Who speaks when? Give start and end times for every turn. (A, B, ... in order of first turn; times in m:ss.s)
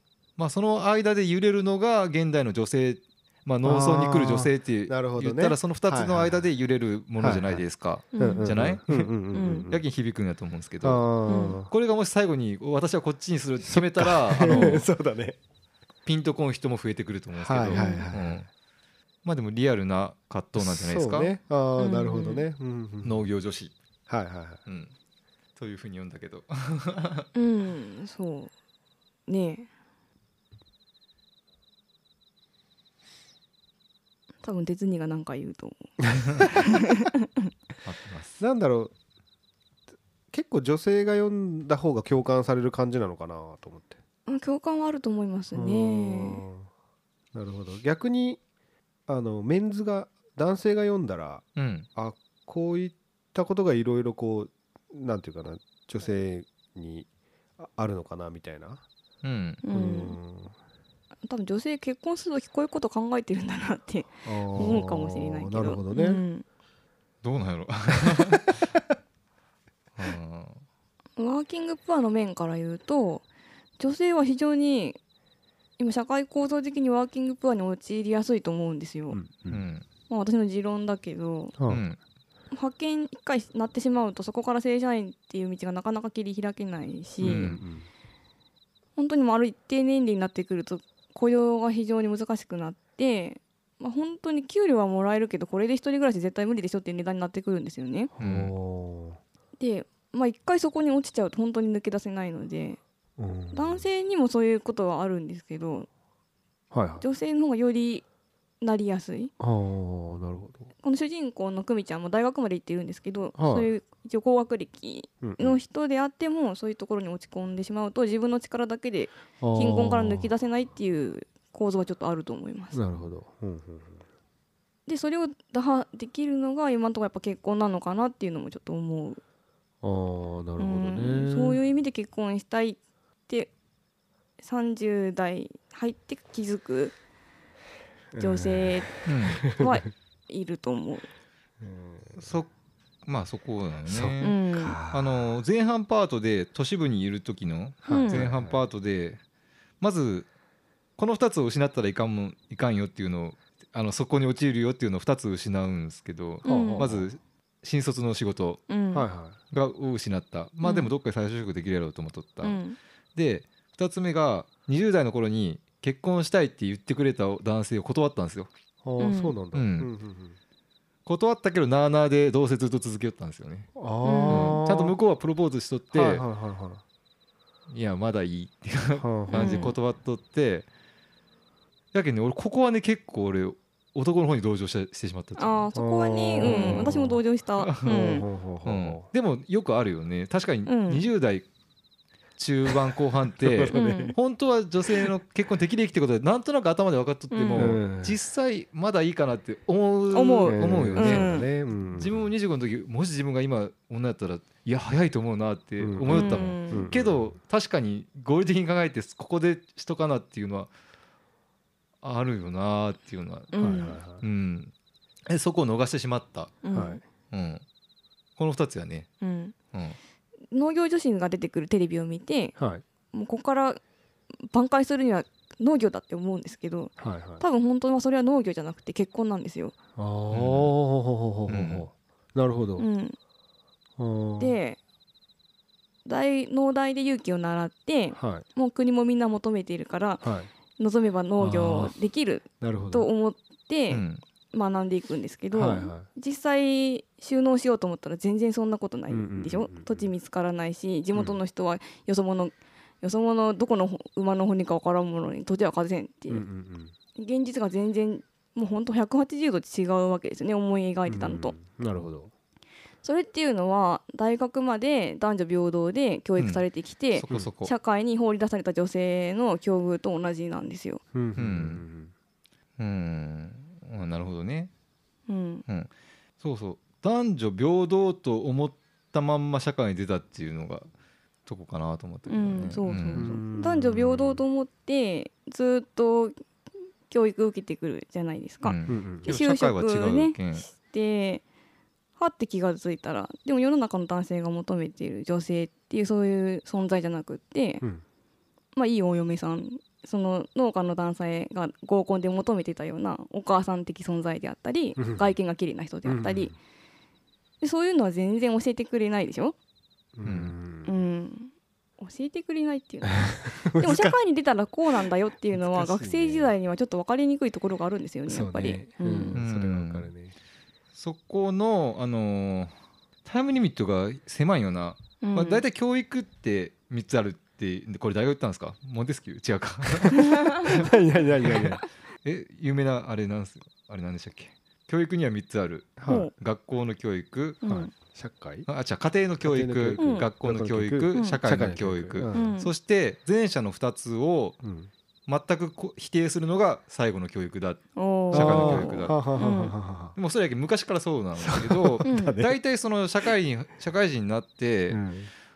0:00.4-0:09.1 A
0:03.6-0:06.5 B
0:07.2-0:07.6 B
0:08.1-0:08.5 C
0:08.2-0:09.8 B
0:09.3-0:09.7 C
0:09.7-0:11.1 A
0:10.8-0:11.7 B
0:11.3-0:11.6 C
0:11.7-0:14.8 A
0:13.6-0:15.4 B
0:14.4-0:14.8 C
0:16.0-0:18.5 A
0:17.4-0:18.5 B
0:17.7-0:18.0 C
0:19.2-0:21.3 A
0:20.6-0:23.2 B
0:21.8-0:22.4 C
0:23.0-0:23.7 A
0:24.1-0:24.6 B
0:24.6-0:24.9 A
0:25.6-0:27.2 A
0:27.3-0:28.5 C
0:29.3-0:29.7 C
0:34.4-0:37.2 C
0:37.8-0:38.4 A
0:38.4-0:38.9 B
0:40.3-0:44.0 B
0:44.3-0:46.4 C
0:45.5-0:46.7 B
0:47.3-0:48.4 B
0:49.1-0:58.8 B
0:51.6-0:51.9 A
0:59.2-0:59.6 A
0:59.6-1:00.2 C
0:59.7-1:00.5 B
1:01.2-1:06.4 C
1:04.2-1:06.2 B
1:07.2-1:08.8 A
1:10.0-1:10.6 A
1:11.2-1:13.2 C
1:13.8-1:15.0 C
1:15.8-1:19.2 C
1:19.1-1:19.6 B
1:19.5-1:19.8 A
1:20.1-1:21.5 C
1:21.6-1:21.8 B
1:21.7-1:22.0 A
1:22.5-1:27.5 C
1:27.2-1:27.9 B
1:27.2-1:27.6 A
1:29.0-1:38.1 C
1:38.2-1:39.2 B
1:38.2-1:38.5 A
1:39.6-1:42.8 C
1:43.2-1:43.8 B
1:43.5-1:45.9 C
1:46.7-1:47.0 B
1:47.0-1:48.0 C
1:48.6-1:49.3 C
1:49.4-1:50.7 B
1:50.8-2:02.8 C
1:53.4-1:53.7 B
1:55.2-1:55.6 B
1:59.4-2:00.3 B
2:02.7-2:04.0 B
2:04.9-2:09.2 C
2:09.8-2:11.6 B
2:10.6-2:13.5 C
2:14.4-2:16.9 C
2:18.1-2:19.7 B
2:18.2-2:21.1 C
2:19.0-2:19.5 A
2:21.6-2:22.2 B
2:22.2-2:22.5 A
2:23.0-2:29.2 A
2:23.9-2:25.3 B
2:24.2-2:24.8 C
2:27.8-2:28.6 B
2:27.9-2:28.2 C
2:29.8-2:30.3 A
2:31.0-2:38.7 A
2:36.4-2:36.8 C
2:36.4-2:37.1 B
2:38.7-2:39.1 C
2:38.9-2:39.4 B
2:39.5-2:42.6 A
2:40.6-2:40.9 C
2:42.4-2:42.8 C
2:43.2-2:48.5 A
2:48.8-2:50.4 B
2:49.0-2:49.3 C
2:49.5-2:49.9 A
2:51.0-2:53.7 A
2:53.7-2:55.0 B
2:54.0-2:54.6 C
2:54.3-2:56.2 A
2:55.9-2:56.8 B
2:57.7-3:00.7 A
2:59.0-2:59.7 B
2:59.3-2:59.7 C
3:01.9-3:05.7 A
3:05.4-3:08.2 C
3:05.7-3:07.2 B
3:06.4-3:06.9 A
3:07.6-3:08.0 A
3:07.8-3:09.1 B
3:08.6-3:11.4 A
3:10.6-3:11.0 C
3:12.4-3:30.7 A
3:13.4-3:14.2 B
3:13.7-3:14.1 C
3:17.3-3:17.8 C
3:17.6-3:18.2 B
3:20.1-3:21.5 C
3:20.4-3:22.3 B
3:25.8-3:27.3 B
3:26.1-3:26.9 C
3:32.0-3:33.6 A
3:33.5-3:34.0 C
3:33.6-3:34.2 B
3:34.2-3:34.7 A
3:35.3-3:36.6 A
3:36.6-3:37.0 C
3:36.7-3:37.0 B
3:37.3-3:37.6 A
3:38.4-3:39.1 A
3:39.2-3:39.5 C
3:39.7-3:40.0 A
3:40.5-3:42.5 C
3:42.6-3:42.8 B
3:43.1-3:43.8 C
3:44.4-3:49.7 C
3:47.0-3:47.4 B
3:50.0-3:52.9 B
3:50.3-3:50.7 A
3:51.5-3:51.9 A
3:52.8-3:53.2 C
3:54.0-3:54.6 B
3:54.4-3:54.8 C
3:56.0-4:00.2 C
3:58.1-3:58.4 B
4:00.2-4:00.5 B
4:00.8-4:16.4 C
4:01.4-4:01.9 B
4:02.6-4:03.1 B
4:03.9-4:04.2 A
4:05.5-4:06.1 B
4:09.1-4:10.1 B
4:11.1-4:11.4 B
4:16.3-4:16.9 B
4:17.2-4:21.5 C
4:21.1-4:22.3 B
4:23.0-4:31.0 C
4:26.4-4:26.6 A
4:27.1-4:27.7 A
4:31.1-4:32.1 B
4:31.4-4:31.8 A
4:32.8-4:34.7 A
4:35.3-4:35.6 C
4:36.4-4:40.9 A
4:41.4-4:43.3 A
4:42.3-4:46.4 C
4:43.1-4:44.4 B
4:47.1-4:51.4 C
4:48.6-4:50.7 A
4:48.9-4:49.3 B
4:52.2-4:57.8 C
4:58.7-5:06.5 C
5:05.0-5:05.2 B
5:06.0-5:06.5 B
5:07.6-5:09.5 C
5:10.2-5:11.0 B
5:10.2-5:10.5 A
5:10.8-5:19.4 C
5:13.1-5:14.2 B
5:15.5-5:16.5 B
5:18.3-5:20.3 B
5:19.3-5:20.1 A
5:20.9-5:22.7 A
5:23.2-5:37.6 A
5:25.2-5:25.6 C
5:30.0-5:31.8 B
5:30.1-5:30.6 C
5:36.0-5:36.3 B
5:36.1-5:36.3 C
5:37.6-5:37.9 C
5:37.6-5:38.7 B
5:38.7-5:44.6 A
5:39.4-5:42.5 B
5:40.0-5:40.3 C
5:41.1-5:41.4 C
5:42.3-5:42.7 C
5:44.6-5:44.9 B
5:45.3-5:49.2 A
5:48.0-5:49.7 C
5:48.3-5:50.2 B
5:50.1-5:55.0 A
5:51.4-5:52.6 B
5:52.0-5:52.4 C
5:54.9-5:55.3 B